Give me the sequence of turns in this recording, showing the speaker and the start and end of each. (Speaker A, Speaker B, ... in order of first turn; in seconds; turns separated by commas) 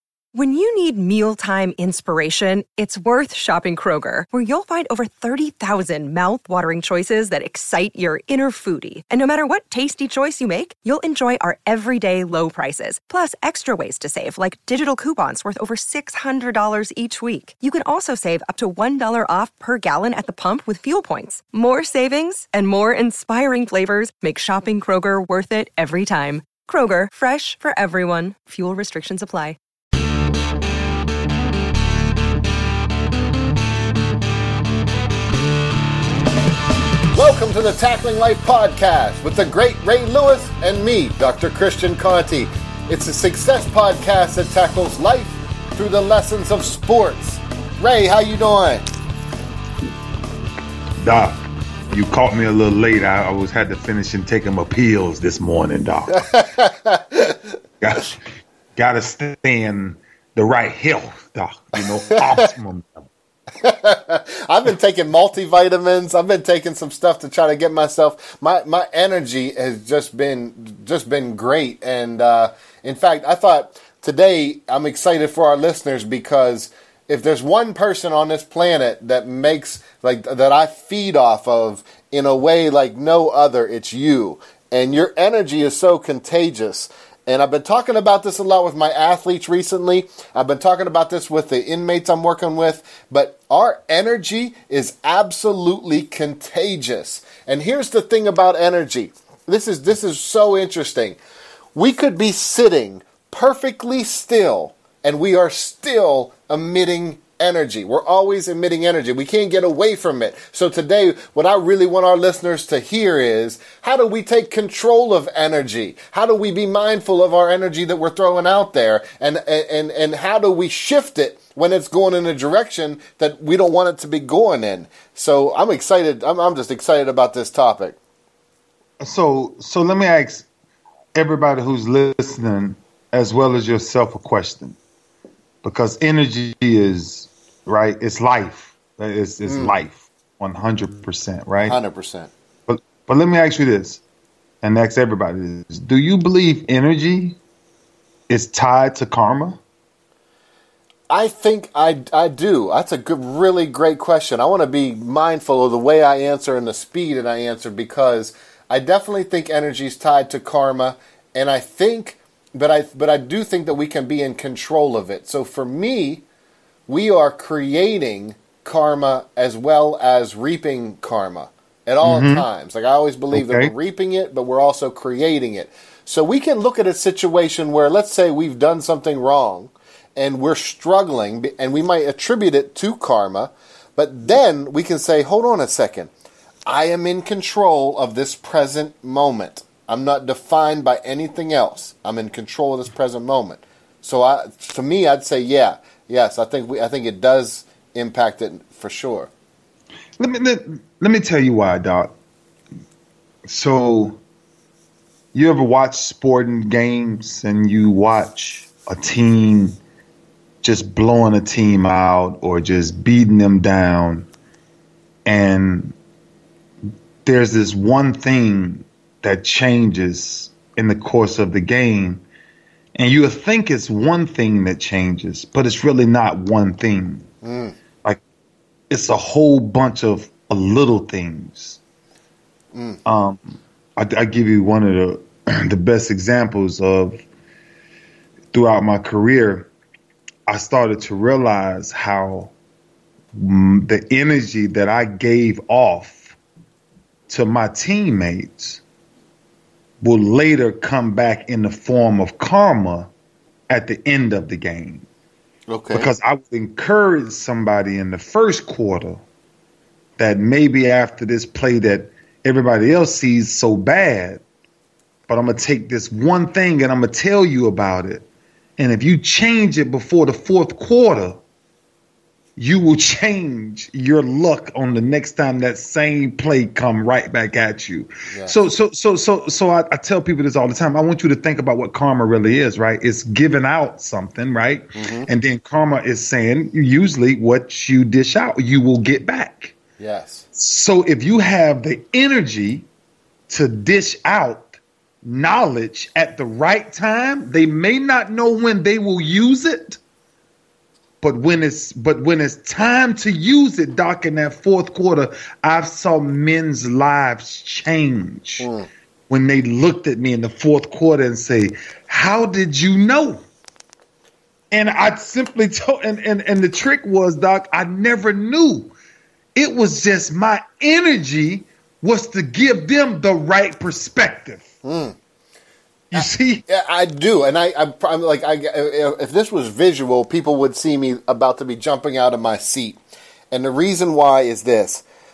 Speaker A: 0.3-29.6, Speaker B: 37.1-48.8, Speaker C: 51.0-51.4, Speaker C: 51.9-56.3, Speaker B: 56.3-57.5, Speaker C: 57.8-58.2, Speaker C: 58.8-63.1, Speaker B: 63.6-101.2, Speaker B: 101.7-128.0, Speaker C: 129.0-130.4, Speaker C: 131.1-134.8, Speaker C: 135.6-141.8, Speaker B: 139.4-139.7, Speaker B: 141.6-142.3, Speaker C: 142.7-144.0, Speaker C: 144.6-147.4, Speaker C: 148.3-149.6, Speaker B: 151.1-166.2, Speaker B: 166.9-186.1, Speaker C: 172.0-172.4, Speaker C: 173.3-173.7, Speaker B: 186.7-199.3, Speaker C: 200.2-202.1, Speaker C: 203.5-204.2, Speaker C: 205.3-209.8, Speaker C: 210.6-214.3, Speaker C: 215.2-215.9, Speaker C: 217.2-222.2, Speaker C: 222.9-227.3, Speaker B: 227.4-227.7, Speaker C: 228.9-231.8, Speaker B: 232.7-233.0, Speaker C: 233.1-237.2, Speaker C: 238.5-239.7, Speaker C: 240.5-242.5, Speaker C: 243.3-246.3, Speaker C: 247.3-248.8, Speaker C: 250.0-253.1, Speaker C: 253.7-255.1, Speaker B: 255.7-256.1, Speaker C: 255.9-259.2, Speaker C: 260.2-264.4, Speaker C: 265.3-268.2, Speaker C: 268.8-271.4, Speaker C: 272.6-289.8, Speaker B: 278.3-278.6, Speaker B: 284.9-285.3, Speaker B: 290.0-290.4, Speaker C: 290.5-292.9, Speaker C: 293.5-300.0, Speaker C: 301.2-308.7, Speaker B: 308.6-308.9, Speaker C: 309.3-313.4, Speaker C: 314.7-318.9, Speaker C: 319.5-324.6, Speaker B: 324.8-325.1, Speaker C: 326.1-326.6, Speaker B: 326.1-333.0, Speaker B: 333.5-335.0